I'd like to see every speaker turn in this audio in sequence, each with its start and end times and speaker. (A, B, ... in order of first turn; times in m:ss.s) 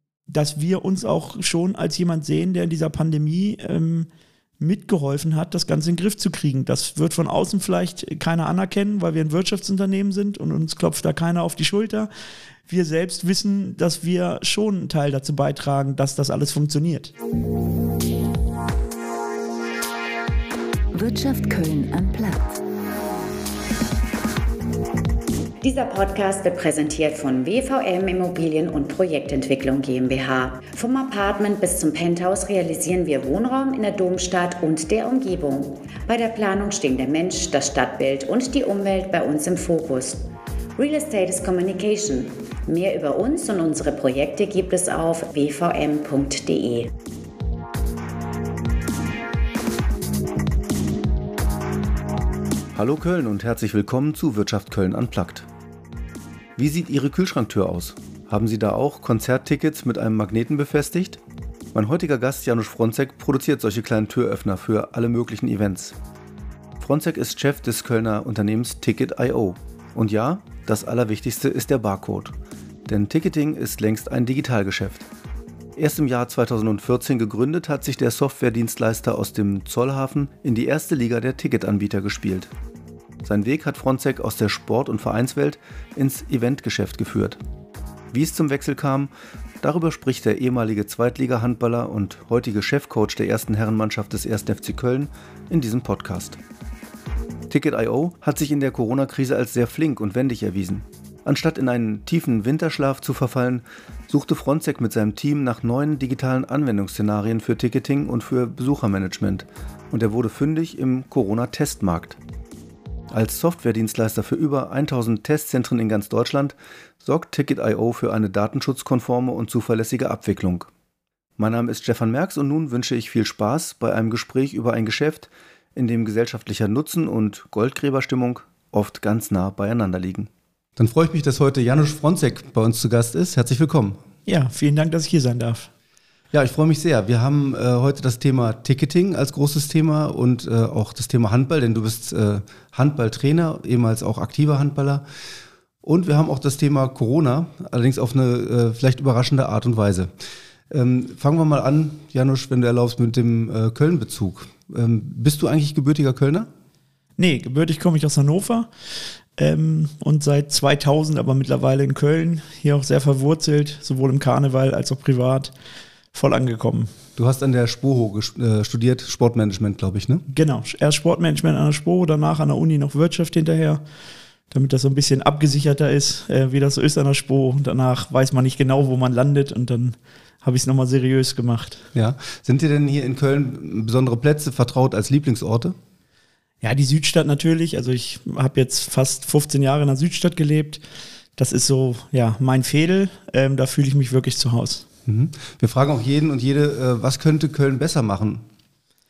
0:00.3-0:04.1 A
0:04.6-0:12.1 A
0:12.7-0:17.1 A
0:20.9-0:22.6 B
0:25.6-0:46.9 B
0:52.7-0:55.5 C
0:56.6-1:01.2 C
1:01.7-1:06.0 C
1:06.8-1:12.3 C
1:12.9-1:15.1 C
1:15.8-1:22.5 C
1:23.2-1:27.4 C
1:28.1-1:29.1 C
1:29.6-1:36.4 C
1:37.5-1:52.2 C
1:53.1-2:00.7 C
2:01.4-2:14.0 C
2:14.2-2:15.7 A
2:16.3-2:25.0 C
2:25.8-2:30.1 C
2:30.7-2:36.5 C
2:37.2-2:38.7 A
2:39.4-2:45.5 A
2:46.1-2:46.9 A
2:47.2-2:50.2 C
2:50.3-2:53.8 A
2:54.5-3:01.8 A
3:01.9-3:05.8 C
3:06.6-3:10.8 A
3:11.4-3:14.8 A
3:15.0-3:18.4 C